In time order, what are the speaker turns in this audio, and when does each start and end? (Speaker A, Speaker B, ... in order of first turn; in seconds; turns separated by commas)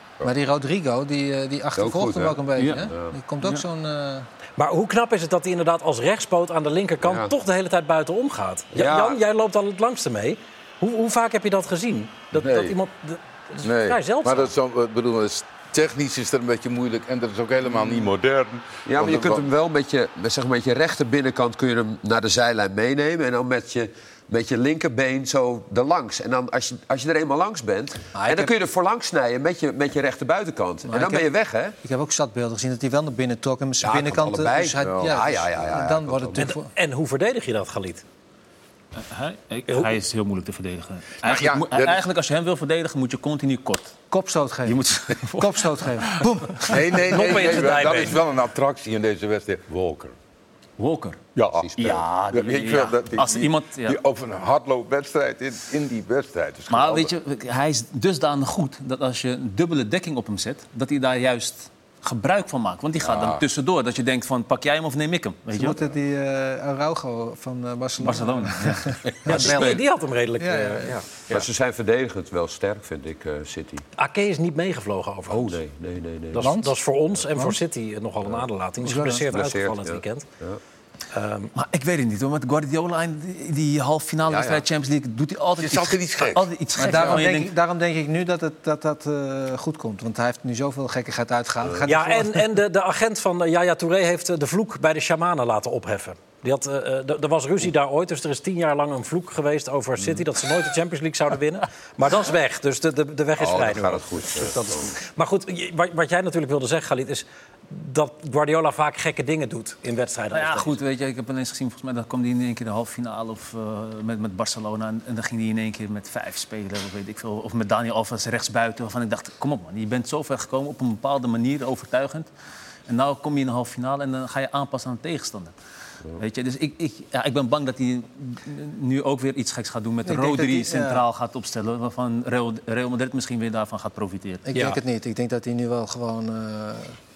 Speaker A: 0.2-4.3, Speaker B: 1.7-3.1, Speaker C: 2.5-2.9, Speaker D: 4.6-14.5, Speaker B: 7.0-7.3, Speaker B: 8.7-9.2, Speaker E: 12.3-12.7, Speaker E: 13.6-19.5, Speaker B: 18.9-31.8, Speaker A: 28.1-28.5, Speaker A: 30.9-31.3, Speaker A: 31.8-36.7, Speaker B: 33.8-36.5, Speaker E: 34.8-35.2, Speaker D: 36.4-38.0, Speaker C: 39.0-44.0, Speaker E: 41.2-42.0, Speaker A: 44.1-46.9, Speaker C: 44.6-46.7, Speaker E: 46.7-50.1, Speaker D: 47.1-48.2, Speaker C: 50.8-51.2, Speaker E: 51.4-57.1, Speaker B: 51.6-52.1, Speaker C: 51.8-54.0, Speaker C: 56.7-65.8, Speaker E: 63.0-63.4, Speaker A: 65.5-69.8, Speaker C: 68.0-69.0, Speaker D: 69.3-71.0, Speaker B: 69.3-69.8, Speaker A: 70.4-71.0, Speaker B: 71.3-73.8, Speaker D: 74.0-75.6, Speaker B: 75.3-76.5, Speaker D: 76.3-80.3, Speaker A: 76.4-76.7, Speaker A: 78.8-79.3, Speaker B: 79.3-80.6, Speaker D: 81.1-81.5, Speaker C: 81.5-87.5, Speaker B: 84.3-84.6, Speaker E: 85.6-87.2, Speaker A: 86.8-92.4, Speaker D: 91.8-110.7, Speaker B: 103.4-105.0, Speaker C: 110.3-122.3, Speaker C: 122.9-125.5, Speaker C: 126.2-134.4, Speaker A: 130.1-131.0, Speaker A: 134.4-137.0, Speaker D: 134.5-134.8